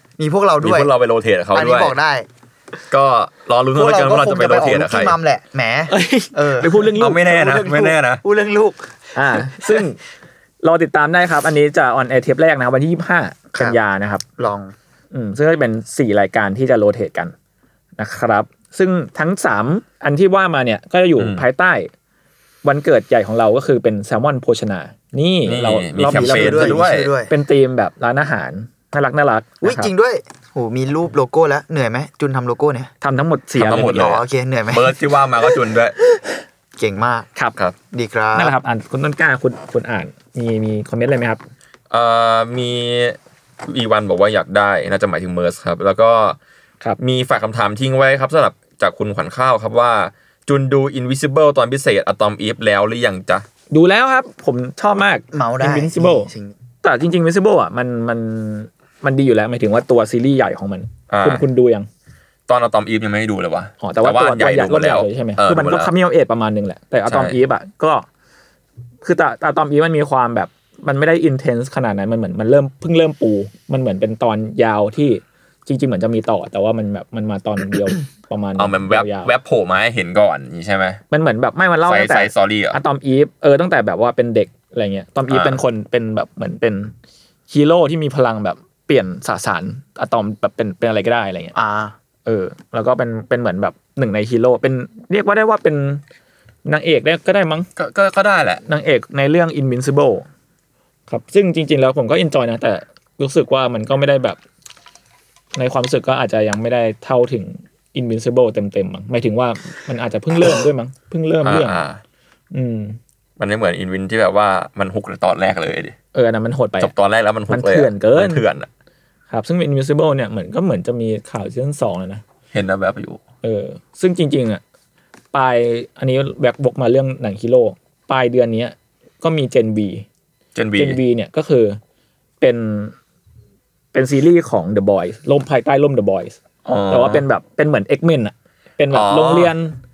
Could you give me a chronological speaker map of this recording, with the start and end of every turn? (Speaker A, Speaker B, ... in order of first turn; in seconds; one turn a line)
Speaker A: 0.2-0.9
Speaker B: 0.6-1.9
Speaker A: 1.5-2.3
Speaker B: 2.9-5.2
Speaker A: 3.8-9.9
Speaker C: 5.9-7.5
Speaker B: 7.0-8.2
Speaker C: 9.1-10.0
Speaker C: 10.6-14.2
Speaker A: 14.4-14.7
Speaker C: 15.1-17.3
Speaker C: 18.0-21.9
Speaker B: 21.2-21.4
Speaker C: 22.6-29.9
Speaker B: 25.5-27.1
Speaker A: 26.1-27.3
Speaker A: 29.6-32.9
Speaker C: 33.0-34.1
Speaker B: 33.6-36.0
Speaker A: 33.8-35.0
Speaker A: 36.8-37.3
Speaker A: 37.9-38.5
Speaker C: 38.4-41.4
Speaker B: 41.9-46.4
Speaker B: 47.0-53.5
Speaker C: 53.7-56.3
Speaker A: 55.3-56.5
Speaker C: 56.8-61.9
Speaker B: 61.1-61.5
Speaker B: 62.5-65.9
Speaker C: 63.8-68.1
Speaker B: 67.1-67.4
Speaker C: 69.0-79.3
Speaker B: 78.6-81.0
Speaker C: 81.1-86.9
Speaker B: 81.8-82.8
Speaker B: 85.3-85.6
Speaker C: 87.5-91.5
Speaker A: 91.5-92.0
Speaker C: 92.2-96.0
Speaker C: 96.6-97.7
Speaker B: 97.8-98.6
Speaker C: 98.6-100.3
Speaker C: 101.1-104.4
Speaker C: 105.5-111.8
Speaker B: 111.4-112.0
Speaker C: 112.5-113.0
Speaker B: 113.4-116.0
Speaker C: 116.1-116.9
Speaker B: 116.8-118.7
Speaker C: 117.5-118.4
Speaker C: 119.3-122.2
Speaker B: 122.5-123.2
Speaker C: 123.4-124.6
Speaker C: 125.3-130.1
Speaker B: 130.6-131.0
Speaker C: 130.8-131.8
Speaker C: 132.4-132.9
Speaker C: 133.9-139.8
Speaker B: 136.7-137.2
Speaker B: 138.9-139.5